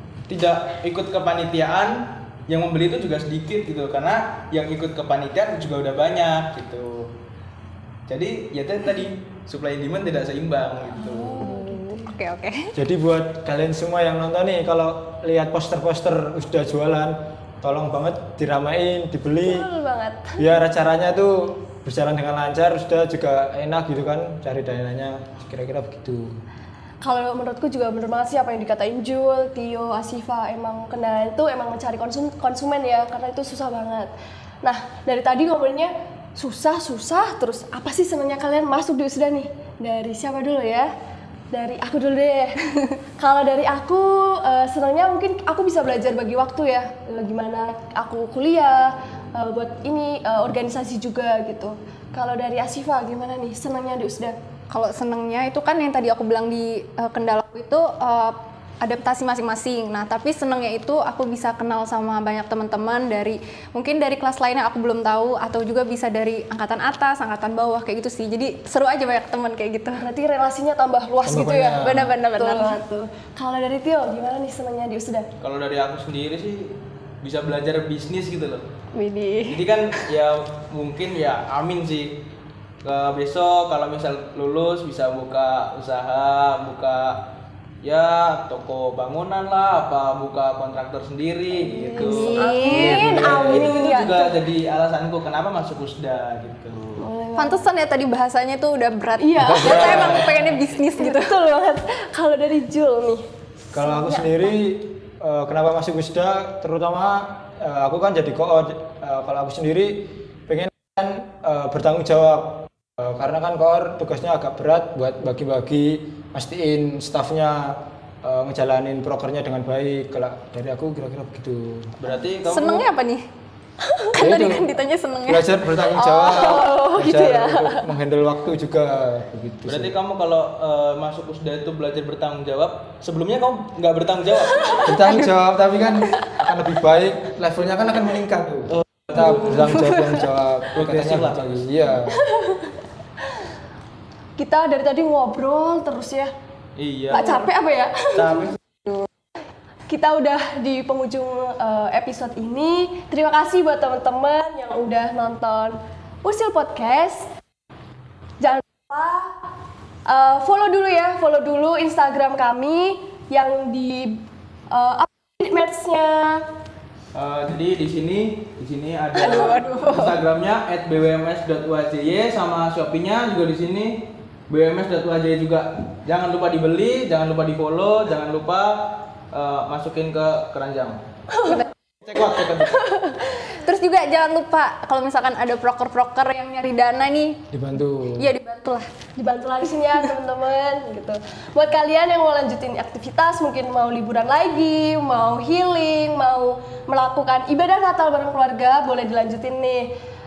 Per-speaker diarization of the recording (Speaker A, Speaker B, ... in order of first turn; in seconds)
Speaker A: 0.3-7.1, 8.1-11.5, 75.4-78.6, 79.5-82.2, 82.8-87.2, 87.8-97.0, 99.8-100.5, 122.0-122.9, 129.7-134.9, 138.9-139.9, 140.7-141.7, 146.8-147.5, 148.1-148.6, 167.1-181.0, 182.0-182.8
Speaker B: 11.0-12.1, 19.4-20.4, 27.0-34.1, 34.6-40.9, 41.5-42.6, 43.2-54.4, 70.0-75.3, 91.5-94.4, 97.0-97.7, 99.2-104.5, 123.8-124.1, 125.9-127.9, 134.6-135.2, 142.1-142.7, 144.4-146.3, 147.1-148.5, 149.9-157.3, 158.4-159.3, 160.1-166.4, 181.3-181.6, 182.2-183.3, 189.2-199.9
Speaker C: 11.4-12.7, 54.7-70.0, 71.7-72.8, 78.9-79.7, 92.0-93.2, 97.4-101.3, 122.4-123.2, 124.1-125.5, 169.2-170.1, 181.4-181.7, 183.3-187.4, 188.2-188.9
Speaker D: 12.7-19.6, 20.4-26.4, 71.2-72.1, 93.1-93.7, 99.4-100.3, 103.7-122.1, 124.1-124.7, 125.2-129.9, 134.8-142.2, 187.5-188.3